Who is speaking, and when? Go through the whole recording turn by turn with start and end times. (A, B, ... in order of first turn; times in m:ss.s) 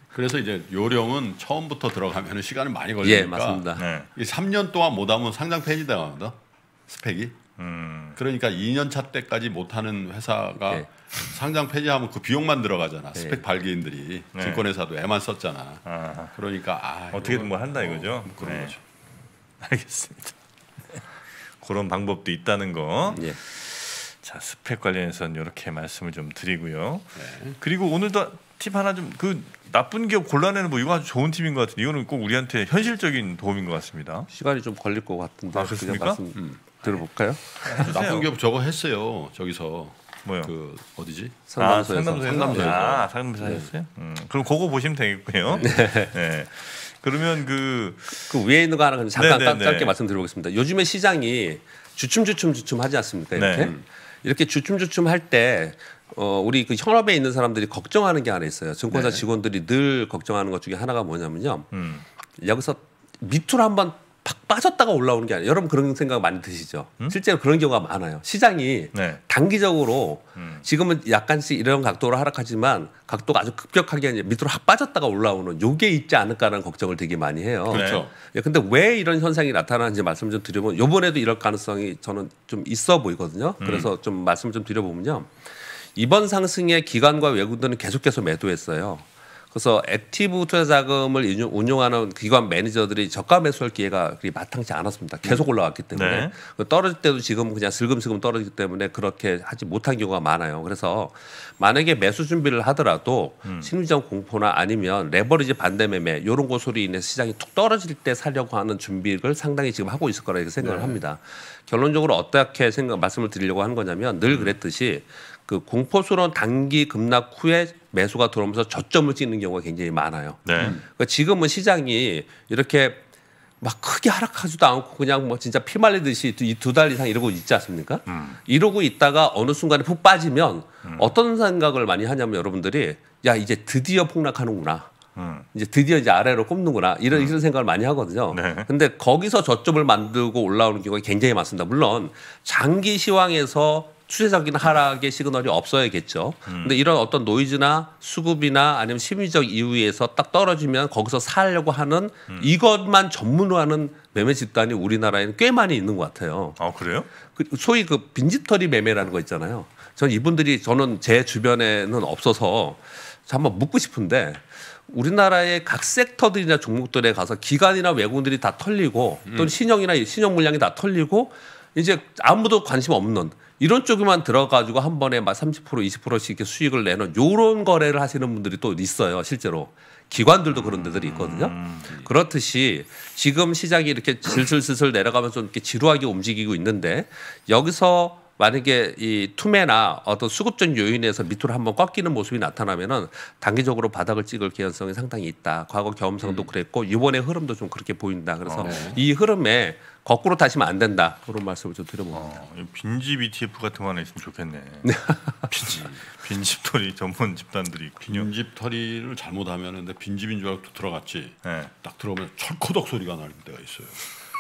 0:00.1-0:06.4 A
0:03.0-0:03.9 B
0:03.8-0:04.1 C
0:06.9-0:07.4 A
0:07.6-0:08.2 C
0:08.2-0:15.8 A
0:13.2-0:13.4 B
0:14.3-0:14.6 C
0:15.8-0:16.4 C
0:16.4-0:18.8 A
0:17.1-0:18.8 C
0:19.6-0:20.4 C
0:21.6-0:34.3 C
0:27.2-0:27.6 A
0:34.3-0:37.8 B
0:35.5-0:36.2 C
0:37.6-0:38.3 C
0:37.8-0:41.4 A
0:40.3-0:40.5 C
0:41.5-0:42.8 B
0:41.6-0:48.4 C
0:42.2-0:43.1 A
0:45.6-0:46.1 B
0:48.3-1:01.7 B
0:49.2-0:50.0 C
0:53.4-0:53.7 C
0:58.9-0:59.2 A
1:01.7-1:02.0 C
1:02.4-1:25.3 B
1:08.9-1:09.2 C
1:10.4-1:10.6 C
1:17.7-1:18.1 A
1:17.7-1:18.0 C
1:23.6-1:23.9 C
1:26.0-2:03.0 B
1:35.9-1:36.3 C
1:50.6-1:51.0 A
2:00.4-2:00.8 C
2:00.6-2:00.8 A
2:03.6-2:14.9 B
2:08.1-2:08.4 C
2:10.8-2:11.1 C
2:15.2-2:15.5 C
2:15.5-2:36.6 B
2:18.3-2:18.7 C
2:26.5-2:26.8 C
2:36.6-2:37.1 C
2:37.3-3:22.4 B
2:49.3-2:49.5 A
3:00.6-3:02.0 C
3:18.5-3:18.7 C
3:18.6-3:19.0 A
3:22.1-3:28.3 C
3:24.8-3:25.8 B
3:28.0-3:34.1 A
3:31.4-3:31.7 C